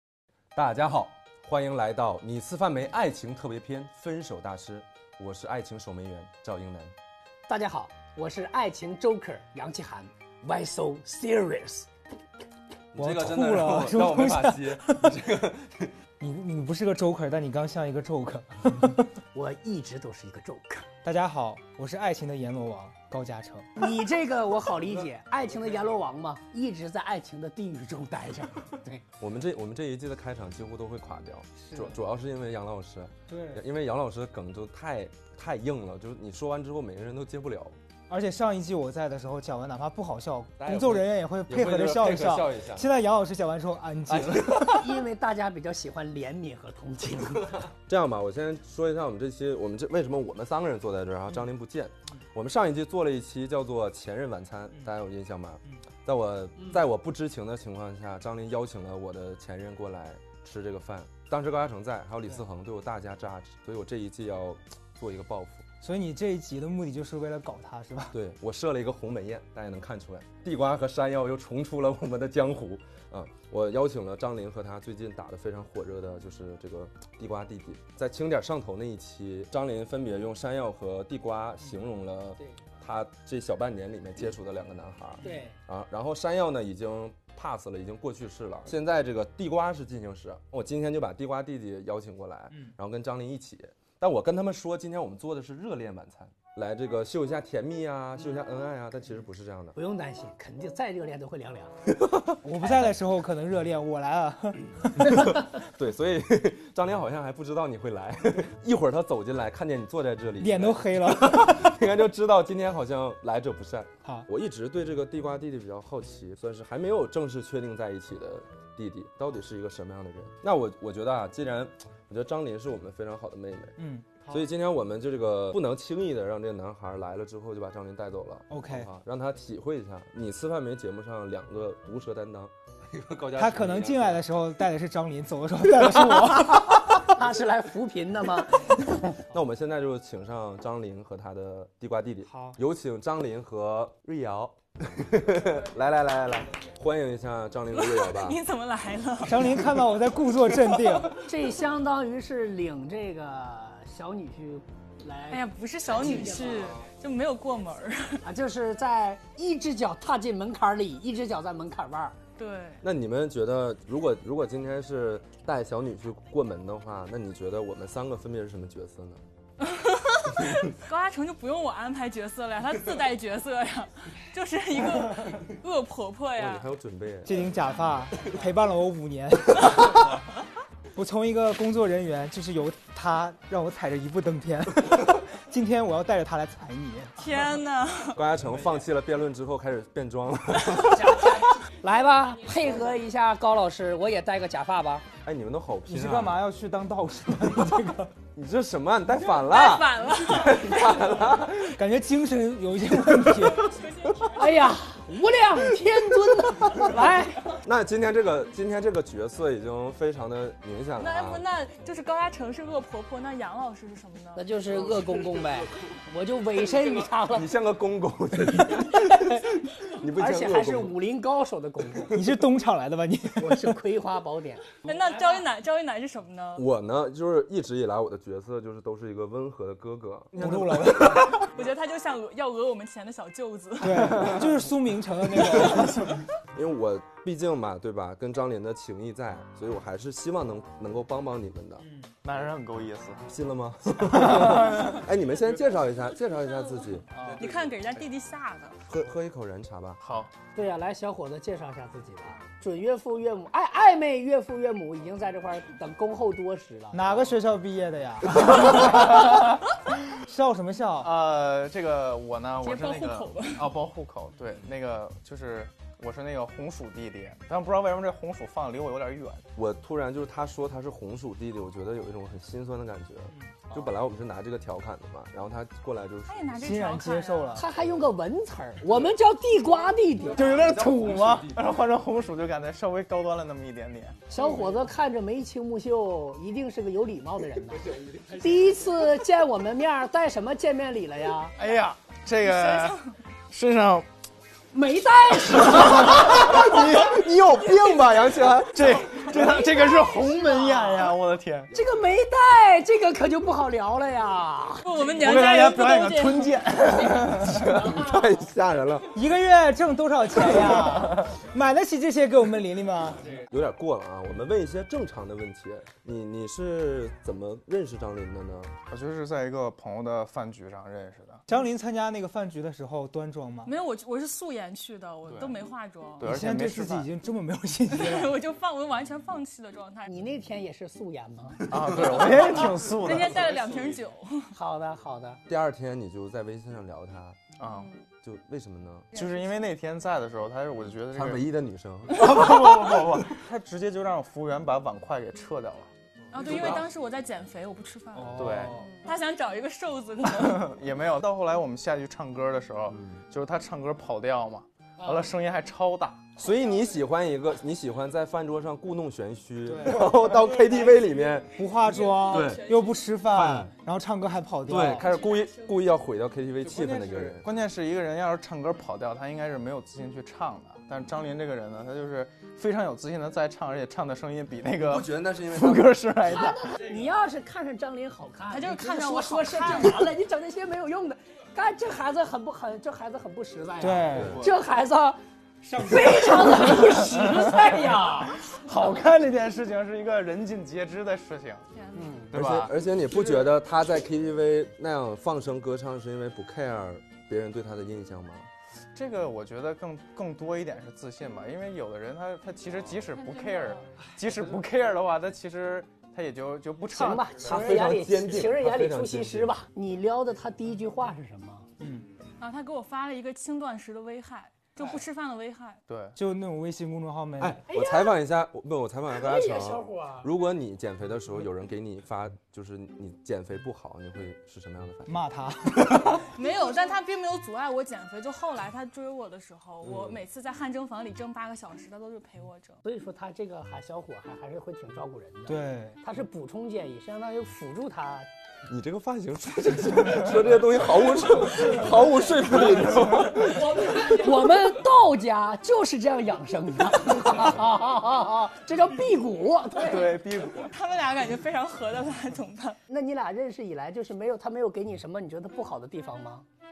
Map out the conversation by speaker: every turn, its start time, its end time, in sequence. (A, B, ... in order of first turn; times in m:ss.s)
0:00.6-0:06.9 A
0:07.5-0:11.9 B
0:12.9-0:16.0 A
0:13.0-0:15.2 C
0:16.2-0:19.1 C
0:19.3-0:20.9 B
0:21.0-0:23.7 C
0:23.8-0:29.0 B
0:29.2-0:37.8 A
0:31.6-0:32.0 C
0:33.3-0:33.6 C
0:38.1-0:44.9 C
0:40.6-0:42.9 A
0:44.1-0:44.8 A
0:44.6-0:47.7 B
0:47.9-1:05.6 A
1:05.8-1:08.2 C
1:08.1-1:39.8 A
1:25.2-1:25.5 C
1:25.2-1:25.6 B
1:39.8-1:41.7 B
1:41.9-1:42.4 A
1:42.4-1:45.4 C
1:45.0-2:03.8 A
1:50.4-1:51.8 C
2:03.8-2:04.5 C
2:04.3-2:14.2 A
2:08.5-2:08.9 C
2:13.4-2:17.0 C
2:16.8-2:19.2 B
2:19.3-2:28.4 A
2:22.3-2:22.6 C
2:27.7-2:29.6 D
2:29.2-2:31.3 C
2:31.1-2:36.8 B
2:35.3-2:38.2 D
2:38.2-2:42.2 B
2:42.4-2:42.8 D
2:42.8-2:49.2 A
2:49.6-2:56.7 D
2:56.4-2:57.5 A
2:57.2-3:00.2 C
3:01.0-3:07.3 C
3:07.2-3:08.2 D
3:08.1-3:11.5 A
3:10.9-3:15.1 B
3:15.2-3:16.4 A
3:15.9-3:18.1 C
3:18.4-3:21.8 A
3:19.2-3:21.1 D
3:21.6-3:23.8 C
3:23.6-3:24.7 D
3:24.4-3:27.6 B
3:27.6-3:31.4 A
3:31.0-3:34.5 D
3:34.4-3:37.5 B
3:37.3-3:40.9 A
3:39.0-3:39.5 B
3:40.2-3:42.3 B
3:42.1-3:43.8 C
3:43.4-3:45.4 B
3:44.8-3:46.7 D
3:46.6-3:51.4 A
3:50.4-3:51.5 C
3:51.4-3:54.4 D
3:53.8-3:56.2 C
3:55.6-3:55.8 A
3:56.5-4:01.9 A
4:01.8-4:02.1 C
4:02.2-4:03.3 E
4:03.3-4:07.1 A
4:07.1-4:08.1 E
4:07.4-4:08.8 D
4:08.9-4:10.0 A
4:10.0-4:10.3 E
4:10.5-4:17.1 B
4:16.9-4:19.4 C
4:20.1-4:21.1 C
4:21.0-4:29.4 E
4:22.6-4:23.7 D
4:29.6-4:36.5 A
4:33.3-4:33.6 C
4:36.3-4:37.7 D
4:36.6-4:37.7 C
4:37.6-4:41.4 B
4:40.3-4:41.8 A
4:40.4-4:44.2 E
4:44.3-4:51.6 B
4:51.6-4:54.1 E
4:52.4-4:53.1 D
4:54.7-4:56.6 B
4:55.8-4:59.2 A
4:58.7-5:01.7 E
4:59.7-5:01.1 B
5:01.7-5:04.8 B
5:04.8-5:06.9 D
5:05.1-5:08.0 E
5:07.5-5:09.1 A
5:09.1-5:13.3 C
5:13.3-5:18.8 A
5:18.9-5:21.4 E
5:21.5-5:23.7 C
5:23.6-5:26.3 D
5:25.3-5:25.6 E
5:26.2-5:27.1 E
5:26.2-5:28.4 C
5:27.9-5:30.1 D
5:30.1-5:32.0 B
5:31.7-5:34.0 E
5:32.3-5:34.5 D
5:34.5-5:35.4 B
5:35.5-5:37.4 A
5:37.6-5:37.9 E
5:37.6-5:38.0 D
5:38.2-5:39.1 A
5:39.1-5:39.6 D
5:39.1-5:41.5 E
5:41.1-5:42.4 A
5:42.1-5:46.8 E
5:46.3-5:50.8 D
5:46.4-5:46.8 A
5:48.2-5:48.9 C
5:48.4-5:48.9 E
5:50.4-5:56.3 E
5:52.9-5:53.2 A
5:56.4-6:01.6 A
5:59.6-6:00.3 C
6:01.5-6:05.1 C
6:01.6-6:03.1 D
6:02.2-6:02.7 A
6:03.3-6:03.7 A
6:04.7-6:07.5 A
6:04.8-6:06.0 D
6:06.6-6:07.4 C
6:07.4-6:16.8 E
6:14.8-6:16.0 A
6:16.3-6:28.6 B
6:18.5-6:20.1 D
6:23.8-6:24.4 C
6:24.1-6:24.4 A
6:25.7-6:26.4 C
6:27.4-6:27.7 E
6:28.4-6:31.7 E
6:31.7-6:32.2 D
6:32.0-6:32.3 B
6:32.3-6:33.6 E
6:32.3-6:38.5 A
6:39.0-6:47.7 E
6:43.1-6:43.9 D
6:46.9-6:51.7 B
6:47.4-6:49.5 A
6:51.8-6:52.1 C
6:52.4-6:55.8 D
6:55.9-6:56.2 E
6:56.2-6:57.6 C
6:57.4-7:05.1 A
6:57.7-6:58.2 B
6:59.1-7:00.3 B
7:05.1-7:06.3 C
7:06.4-7:12.8 D
7:06.6-7:06.9 B
7:09.8-7:10.2 A
7:12.8-7:18.3 B
7:15.5-7:16.0 C
7:18.7-7:23.9 A
7:23.6-7:24.0 D
7:23.7-7:30.2 B
7:29.8-7:32.8 D
7:29.8-7:30.7 E
7:32.9-7:36.5 B